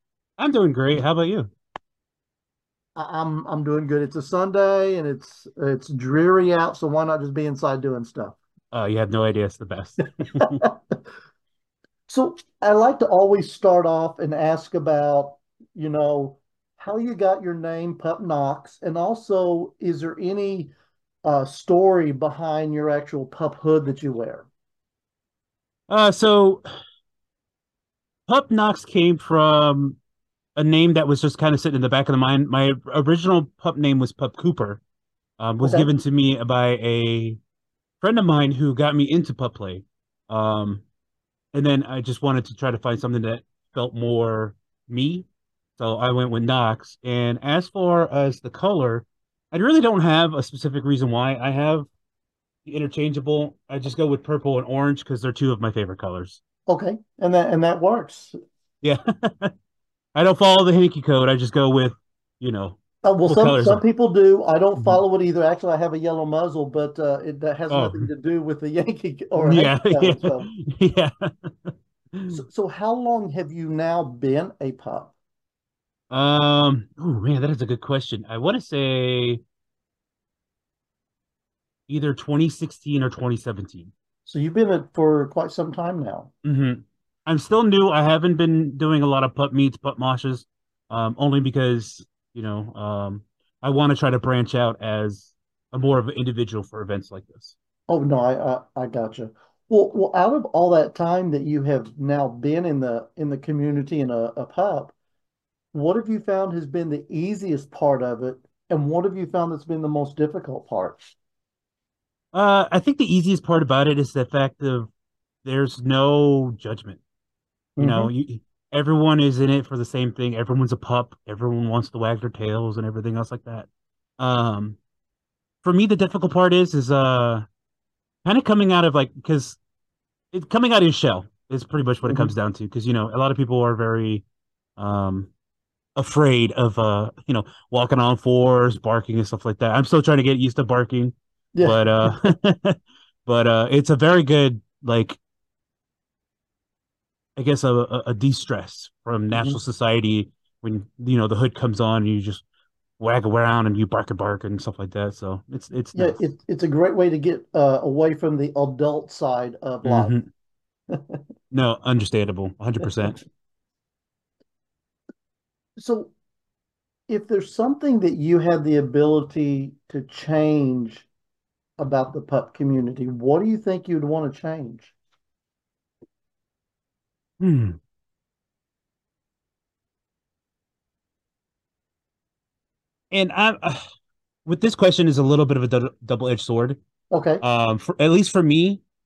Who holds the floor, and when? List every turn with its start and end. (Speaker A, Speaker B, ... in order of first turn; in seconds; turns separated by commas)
Speaker A: 0.4-1.5, Speaker B: 3.0-8.4, Speaker A: 8.7-10.6, Speaker B: 10.3-10.9, Speaker B: 12.1-20.7, Speaker B: 21.2-24.5, Speaker A: 25.9-26.6, Speaker A: 28.3-30.0, Speaker A: 30.6-34.8, Speaker A: 35.4-37.4, Speaker B: 35.6-35.9, Speaker A: 38.0-40.8, Speaker A: 41.5-45.2, Speaker A: 45.8-51.9, Speaker A: 52.7-56.4, Speaker B: 56.7-58.4, Speaker A: 58.8-59.5, Speaker A: 60.1-63.8, Speaker B: 63.0-70.5, Speaker A: 67.7-68.1, Speaker A: 69.4-72.4, Speaker B: 72.3-75.1, Speaker A: 76.1-79.4, Speaker A: 81.9-83.9, Speaker B: 84.3-86.3, Speaker A: 86.4-97.5, Speaker B: 97.9-104.9, Speaker B: 105.7-111.0, Speaker A: 112.3-114.9, Speaker A: 115.5-117.0, Speaker B: 117.8-118.1, Speaker A: 117.8-123.7, Speaker A: 124.2-124.8, Speaker A: 125.6-127.5, Speaker A: 128.2-129.6, Speaker A: 130.3-134.2, Speaker B: 132.1-132.3, Speaker A: 134.8-135.3, Speaker A: 135.9-145.2, Speaker B: 141.5-142.3, Speaker A: 147.3-152.4, Speaker B: 149.3-149.6, Speaker A: 153.0-156.2, Speaker B: 155.9-160.1, Speaker A: 159.8-160.3, Speaker B: 160.9-161.2, Speaker A: 161.5-163.2, Speaker B: 165.8-166.1, Speaker B: 167.1-171.1, Speaker B: 171.8-174.9, Speaker A: 177.4-177.8, Speaker A: 183.1-183.8, Speaker A: 184.4-186.8, Speaker B: 187.1-187.4, Speaker A: 187.4-188.8